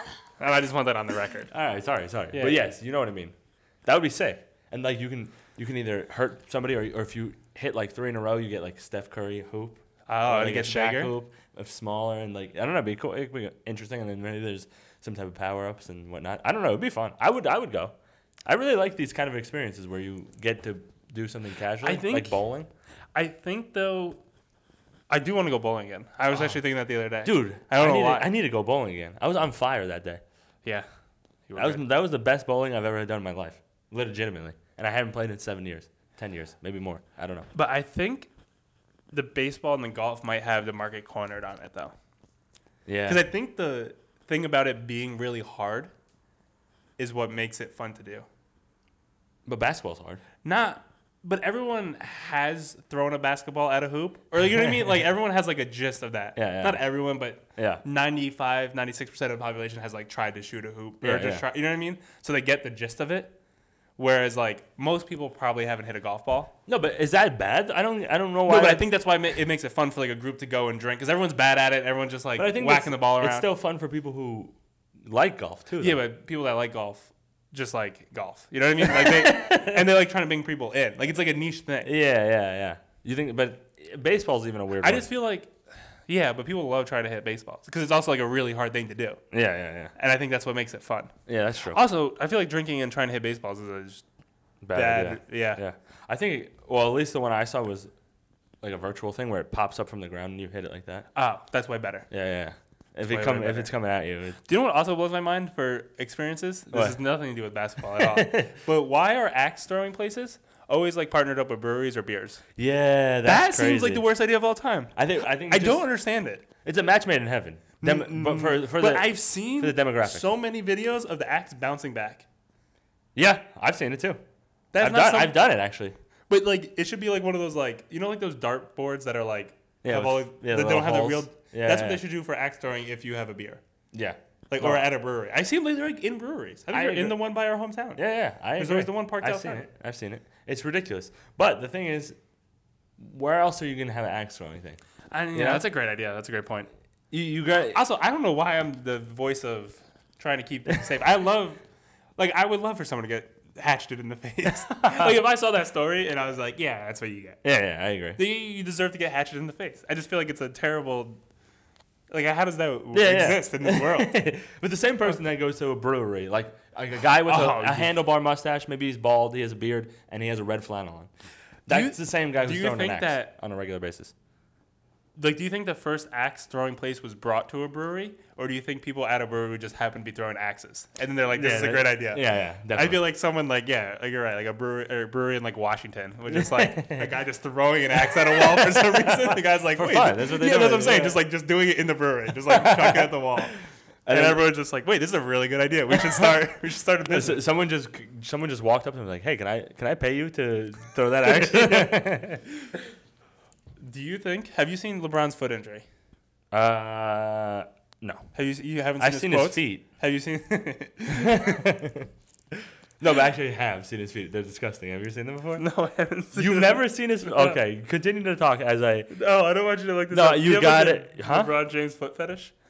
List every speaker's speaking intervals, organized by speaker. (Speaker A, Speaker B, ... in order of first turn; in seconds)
Speaker A: 0.3-1.5, 2.3-2.6, 10.1-11.1, 21.8-22.4, 23.1-24.2, 25.1-28.3, 31.5-31.8, 37.5-38.3, 39.1-41.9, 43.1-45.9, 47.0-48.3, 50.4-63.3, 64.0-66.5, 68.4-73.5, 75.8-81.9, 84.8-85.5, 86.0-89.2, 90.0-91.1, 91.7-94.0, 94.7-95.6, 101.1-102.1, 103.1-103.7, 104.4-112.4, 113.2-116.4, 117.8-122.2, 124.7-125.4, 126.3-133.6, 134.5-138.0, 138.6-139.6, 145.1-146.7, 147.7-151.6, 152.2-157.4, 158.2-161.2, 162.1-164.2, 167.2-167.9, 171.7-173.3, 175.2-193.5, 194.1-197.4, 201.2-202.0, 203.8-205.8, 208.3-211.6, 215.6-217.6, 219.1-222.5
Speaker B: 1.5-17.9, 18.4-22.7, 27.2-30.2, 31.6-37.5, 42.9-43.2, 49.5-50.2, 56.4-56.9, 57.6-57.8, 61.0-61.4, 66.7-68.8, 72.4-76.0, 78.8-79.9, 81.8-85.1, 89.3-89.9, 91.3-91.8, 94.6-97.9, 98.6-101.1, 102.1-104.4, 106.7-107.0, 107.9-108.5, 112.6-114.0, 115.0-115.8, 116.6-120.3, 123.1-124.2, 124.8-126.0, 129.8-132.0, 133.9-134.8, 136.7-137.2, 137.9-142.2, 143.0-144.8, 145.3-145.6, 147.1-147.8, 154.7-155.2, 157.4-158.2, 162.9-171.1, 171.7-174.1, 181.3-183.0, 186.3-187.1, 188.1-191.2, 192.5-193.1, 194.1-194.4, 197.1-202.4, 206.5-208.3, 209.0-209.8, 211.1-212.1, 213.0-215.7, 216.3-219.1, 220.1-221.5